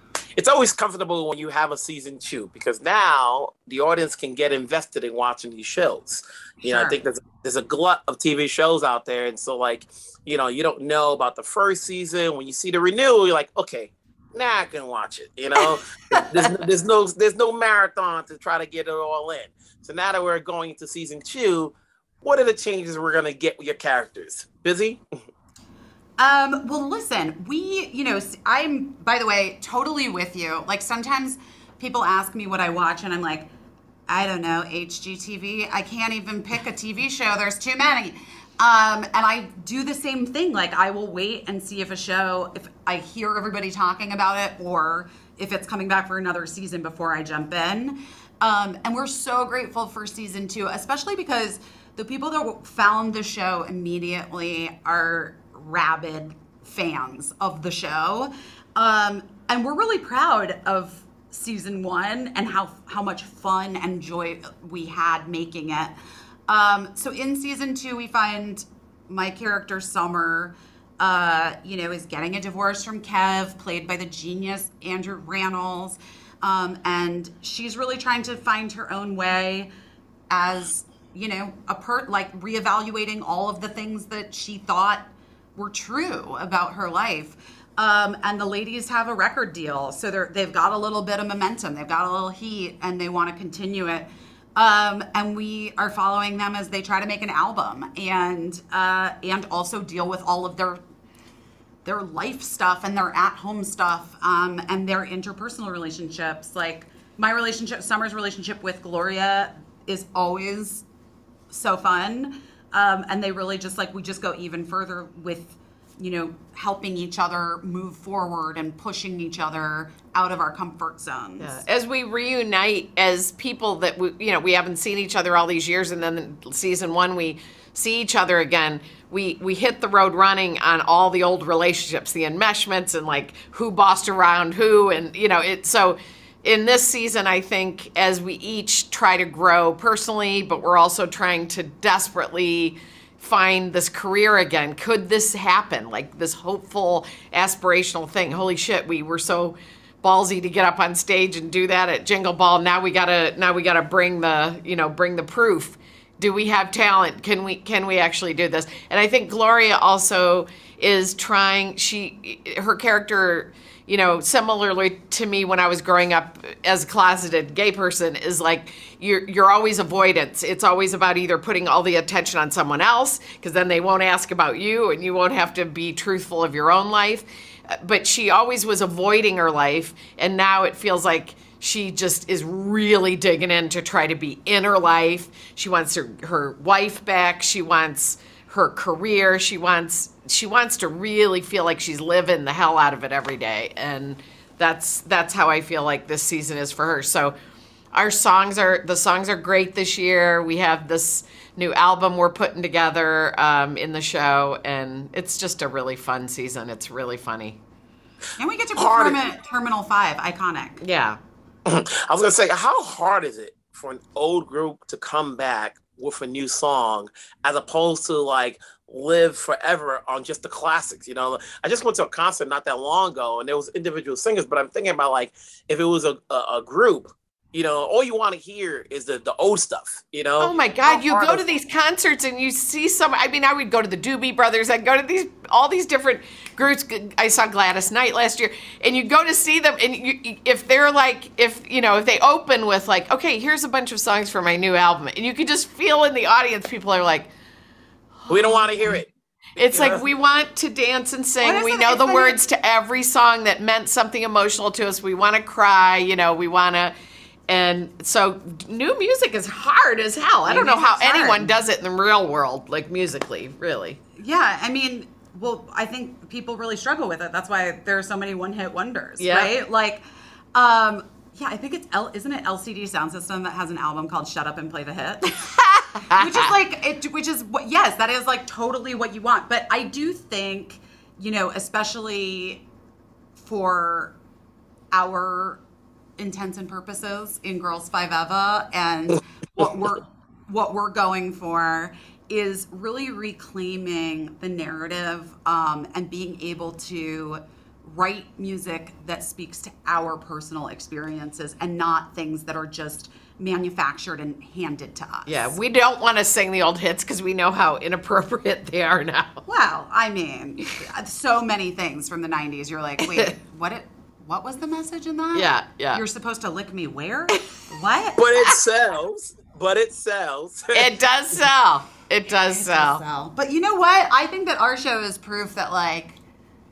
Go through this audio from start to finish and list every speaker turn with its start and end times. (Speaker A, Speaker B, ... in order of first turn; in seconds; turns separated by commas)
Speaker A: 0.4-25.0, Speaker B: 6.7-7.0, Speaker B: 26.2-33.5, Speaker B: 34.1-65.9, Speaker B: 66.5-79.7, Speaker B: 80.3-100.8, Speaker B: 101.8-110.9, Speaker B: 111.5-121.6, Speaker C: 121.4-197.3, Speaker C: 197.9-207.6, Speaker B: 208.4-210.8, Speaker A: 208.8-209.2, Speaker C: 210.8-211.2, Speaker A: 211.7-231.3, Speaker C: 230.4-247.3, Speaker B: 230.9-231.4, Speaker C: 248.2-249.0, Speaker A: 248.3-250.1, Speaker C: 249.6-256.9, Speaker B: 251.4-252.4, Speaker C: 257.5-264.0, Speaker B: 260.5-261.6, Speaker B: 264.2-270.0, Speaker C: 269.2-269.5, Speaker B: 270.6-275.5, Speaker C: 275.4-276.4, Speaker B: 276.1-282.6, Speaker B: 283.4-284.2, Speaker B: 284.9-285.6, Speaker B: 286.2-305.6, Speaker C: 305.3-309.4, Speaker B: 309.5-318.5, Speaker C: 313.0-313.3, Speaker C: 315.3-316.0, Speaker A: 318.2-320.9, Speaker C: 320.7-323.0, Speaker B: 322.4-326.2